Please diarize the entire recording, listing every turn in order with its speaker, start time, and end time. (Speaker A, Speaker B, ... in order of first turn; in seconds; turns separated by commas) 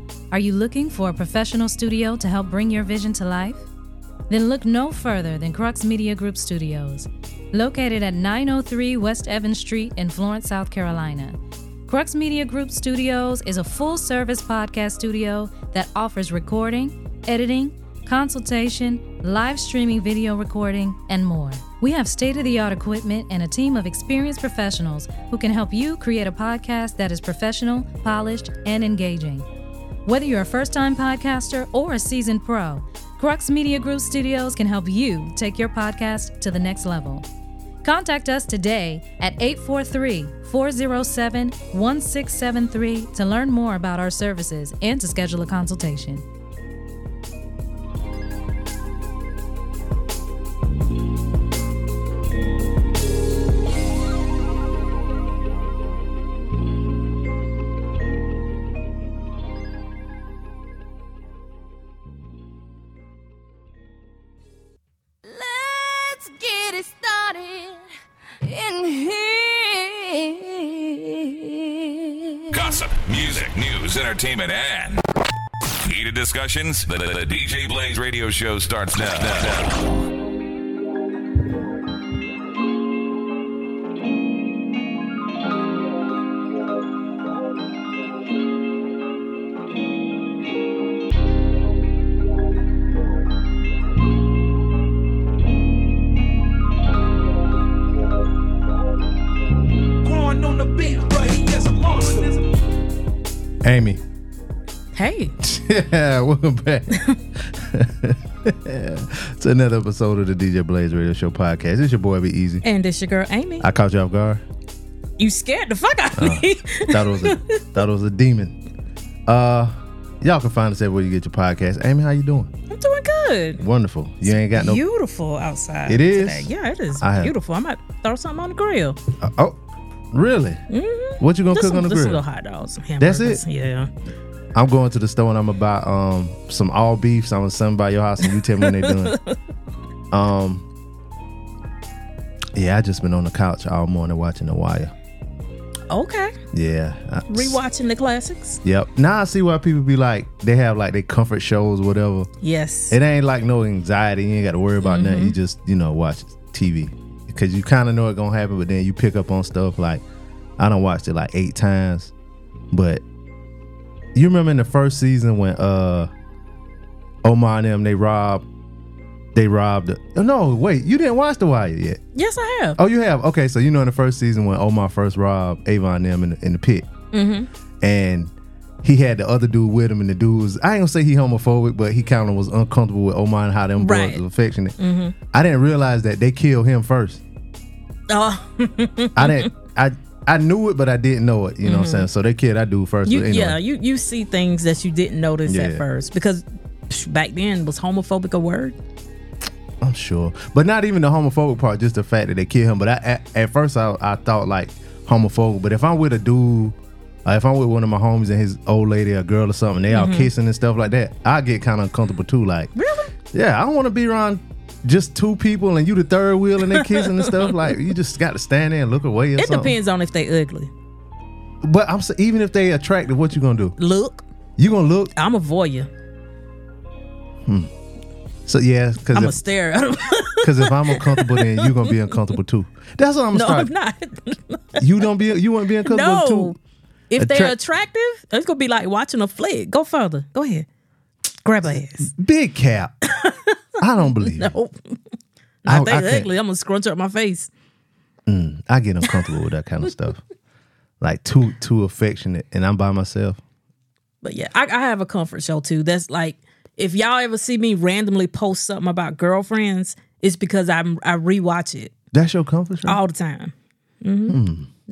Speaker A: 0.3-3.6, Speaker A: 4.3-29.4, Speaker A: 30.0-37.2, Speaker A: 37.8-46.2, Speaker B: 65.2-67.8, Speaker B: 68.4-72.7, Speaker C: 72.5-75.0, Speaker C: 75.8-80.0, Speaker D: 100.0-102.7, Speaker E: 103.6-104.0, Speaker F: 104.9-105.3, Speaker E: 105.4-112.6, Speaker F: 112.6-113.7, Speaker E: 113.6-114.4, Speaker F: 115.2-117.6, Speaker E: 116.2-118.6, Speaker E: 119.3-122.5, Speaker F: 122.7-123.6, Speaker E: 123.6-124.8, Speaker F: 124.3-129.0, Speaker E: 125.8-126.5, Speaker E: 127.0-127.3, Speaker E: 129.2-129.6, Speaker E: 130.1-130.6, Speaker F: 130.7-133.9, Speaker E: 131.2-132.2, Speaker E: 133.0-133.4, Speaker E: 134.5-139.2, Speaker F: 138.6-139.3, Speaker E: 140.1-140.7, Speaker E: 142.6-144.9, Speaker F: 145.9-146.4, Speaker E: 146.5-147.6, Speaker F: 147.3-148.6, Speaker E: 148.6-152.3, Speaker F: 152.4-153.0, Speaker E: 152.9-160.0, Speaker F: 154.8-155.3, Speaker E: 160.6-162.1, Speaker E: 162.7-163.0, Speaker E: 164.1-166.1, Speaker E: 167.2-168.4, Speaker E: 169.3-172.0, Speaker F: 172.1-172.8, Speaker E: 172.8-176.9, Speaker F: 177.1-177.5, Speaker E: 177.8-178.3, Speaker E: 178.8-184.8, Speaker F: 183.8-184.2, Speaker F: 184.8-185.1, Speaker E: 185.3-187.2, Speaker F: 188.1-189.5, Speaker E: 189.2-193.6, Speaker F: 191.6-192.1, Speaker F: 193.1-198.8, Speaker E: 195.4-195.8, Speaker E: 199.8-212.7, Speaker F: 209.9-210.3, Speaker F: 212.8-213.1, Speaker E: 213.3-219.8, Speaker F: 216.7-217.7, Speaker F: 219.4-220.7, Speaker E: 221.6-223.8, Speaker F: 223.8-224.2, Speaker E: 224.6-225.1, Speaker F: 225.2-225.9, Speaker E: 227.4-227.7, Speaker E: 228.4-229.4, Speaker F: 229.1-232.2, Speaker E: 230.4-233.7, Speaker F: 233.3-235.1, Speaker E: 234.8-236.6, Speaker F: 235.8-236.6, Speaker F: 237.1-240.7, Speaker E: 237.2-237.6, Speaker F: 241.4-242.1, Speaker E: 241.8-242.9, Speaker F: 243.1-243.6, Speaker E: 243.8-244.5, Speaker F: 244.1-244.7, Speaker F: 245.6-247.5, Speaker E: 245.7-246.3, Speaker E: 248.3-250.2, Speaker E: 251.0-253.4, Speaker F: 254.2-261.9, Speaker E: 262.1-263.0, Speaker F: 262.9-264.4, Speaker E: 264.3-264.7